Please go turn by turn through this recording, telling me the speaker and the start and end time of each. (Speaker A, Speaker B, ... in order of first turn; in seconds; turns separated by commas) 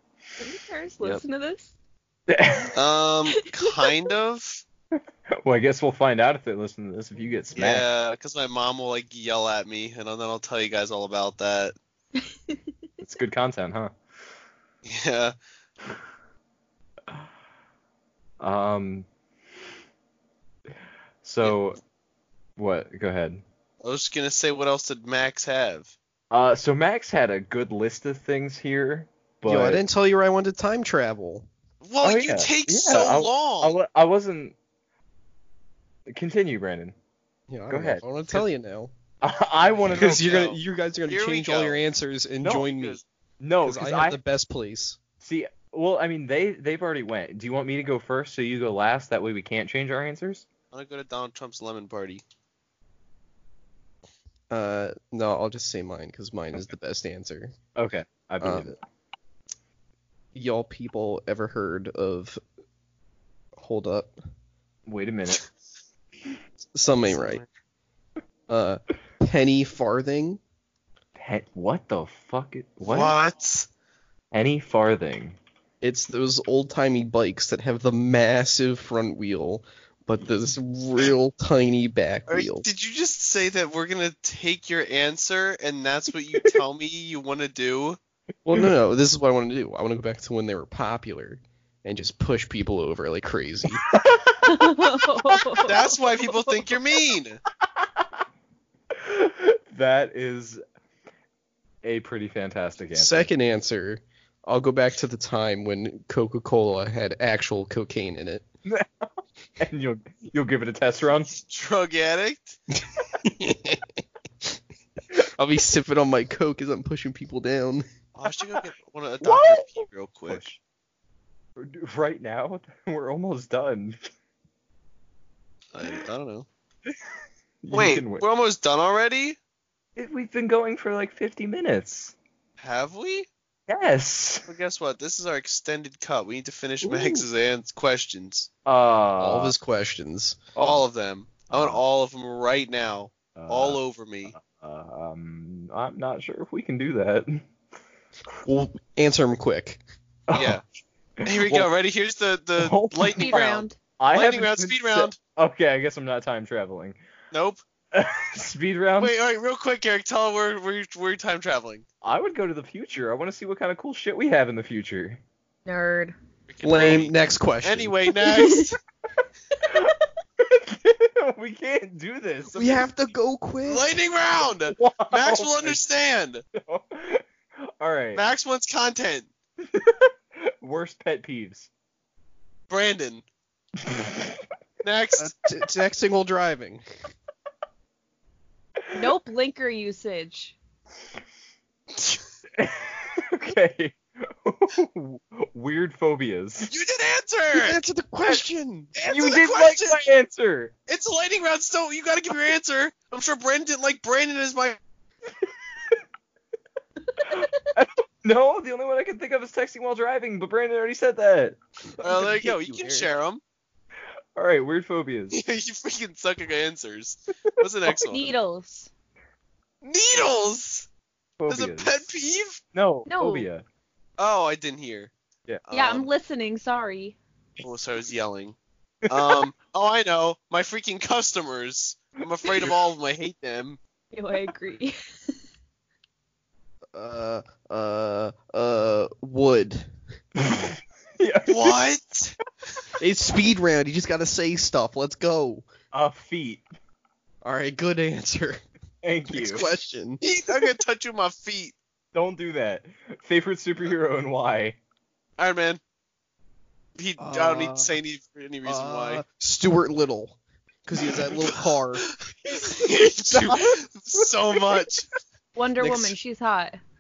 Speaker A: 0.4-1.7, Speaker B: 2.3-2.8, Speaker C: 2.7-4.6, Speaker B: 5.4-7.9, Speaker C: 7.6-11.8, Speaker B: 13.0-13.9, Speaker C: 14.8-15.3, Speaker B: 18.4-19.1, Speaker B: 21.2-21.8, Speaker B: 22.6-23.4, Speaker C: 23.8-25.9, Speaker B: 26.3-29.8, Speaker D: 29.4-31.5, Speaker C: 31.8-33.8, Speaker B: 32.0-34.5, Speaker B: 36.1-37.0, Speaker D: 37.5-38.9, Speaker B: 37.7-38.5, Speaker B: 39.2-40.4, Speaker D: 39.9-43.0, Speaker C: 40.0-41.9, Speaker B: 42.4-42.7, Speaker C: 42.7-43.0, Speaker B: 43.4-44.2, Speaker D: 43.6-45.0, Speaker B: 45.2-50.5, Speaker C: 50.7-52.2, Speaker D: 54.5-57.5, Speaker B: 57.8-58.8, Speaker D: 58.4-58.7, Speaker D: 60.4-62.4, Speaker D: 63.6-64.1, Speaker B: 64.9-65.4, Speaker D: 66.8-67.4, Speaker C: 67.0-67.5, Speaker D: 68.5-70.4, Speaker B: 71.2-73.2, Speaker C: 72.9-73.7, Speaker B: 74.3-75.4, Speaker D: 75.8-82.7, Speaker C: 82.3-88.0, Speaker D: 88.5-93.8, Speaker B: 93.8-94.7, Speaker A: 94.5-96.6, Speaker C: 95.7-97.4, Speaker B: 99.0-100.6, Speaker B: 101.8-103.3, Speaker D: 102.9-108.5, Speaker B: 108.7-111.3, Speaker C: 111.4-112.6, Speaker D: 113.2-113.9, Speaker D: 115.1-117.8, Speaker C: 118.2-120.4, Speaker B: 119.2-120.6, Speaker B: 121.6-124.0, Speaker C: 125.7-126.5, Speaker B: 127.6-128.2, Speaker C: 127.7-129.4, Speaker B: 130.0-132.2, Speaker C: 132.6-133.3, Speaker B: 133.7-134.5, Speaker C: 134.5-138.5, Speaker D: 136.8-137.2, Speaker B: 138.7-139.6, Speaker D: 139.2-140.8, Speaker C: 140.6-144.3, Speaker B: 141.5-141.8, Speaker B: 143.4-147.4, Speaker D: 148.4-149.8, Speaker B: 150.3-150.6, Speaker C: 150.3-150.6, Speaker B: 151.2-151.7, Speaker C: 151.3-155.2, Speaker B: 152.6-153.4, Speaker A: 153.2-153.8, Speaker B: 154.0-157.0, Speaker C: 157.3-157.6, Speaker B: 157.9-159.1, Speaker C: 159.0-161.8, Speaker B: 162.0-165.2, Speaker A: 165.7-166.2, Speaker C: 166.5-168.8, Speaker D: 166.6-168.0, Speaker A: 168.2-168.7, Speaker B: 169.7-172.9, Speaker D: 172.5-173.9, Speaker C: 173.7-176.4, Speaker B: 174.7-175.8, Speaker B: 176.6-177.2, Speaker B: 177.8-178.2, Speaker C: 178.2-179.3, Speaker B: 179.7-181.7, Speaker C: 182.7-183.2, Speaker B: 183.8-184.4, Speaker C: 184.8-185.3, Speaker D: 185.2-186.8, Speaker A: 188.9-190.6, Speaker B: 192.6-196.8, Speaker C: 196.7-197.8, Speaker D: 197.5-198.9, Speaker C: 198.9-200.0, Speaker B: 199.0-200.7, Speaker C: 200.9-204.8, Speaker B: 207.3-211.6, Speaker D: 212.0-213.1, Speaker C: 212.0-213.4, Speaker B: 214.4-215.4, Speaker C: 215.3-218.3, Speaker A: 218.1-218.9, Speaker C: 219.8-220.9, Speaker B: 221.4-221.9, Speaker C: 221.5-222.6, Speaker B: 222.7-223.6, Speaker A: 223.1-223.5, Speaker C: 224.2-225.1, Speaker C: 225.7-226.1, Speaker A: 225.7-227.2, Speaker C: 227.6-228.6, Speaker B: 229.1-229.4, Speaker C: 229.1-233.8, Speaker A: 234.1-234.9, Speaker D: 236.9-239.9, Speaker B: 240.4-241.8, Speaker C: 241.5-242.4, Speaker D: 243.0-245.7, Speaker B: 245.9-246.6, Speaker D: 247.4-248.6, Speaker B: 249.0-249.7, Speaker D: 249.3-250.2, Speaker C: 250.2-251.8, Speaker B: 252.1-254.8, Speaker C: 255.4-255.8, Speaker C: 257.0-259.2, Speaker D: 257.2-257.9, Speaker D: 258.6-262.1, Speaker C: 261.4-265.1, Speaker D: 263.3-263.6, Speaker A: 265.6-266.8, Speaker D: 265.8-266.1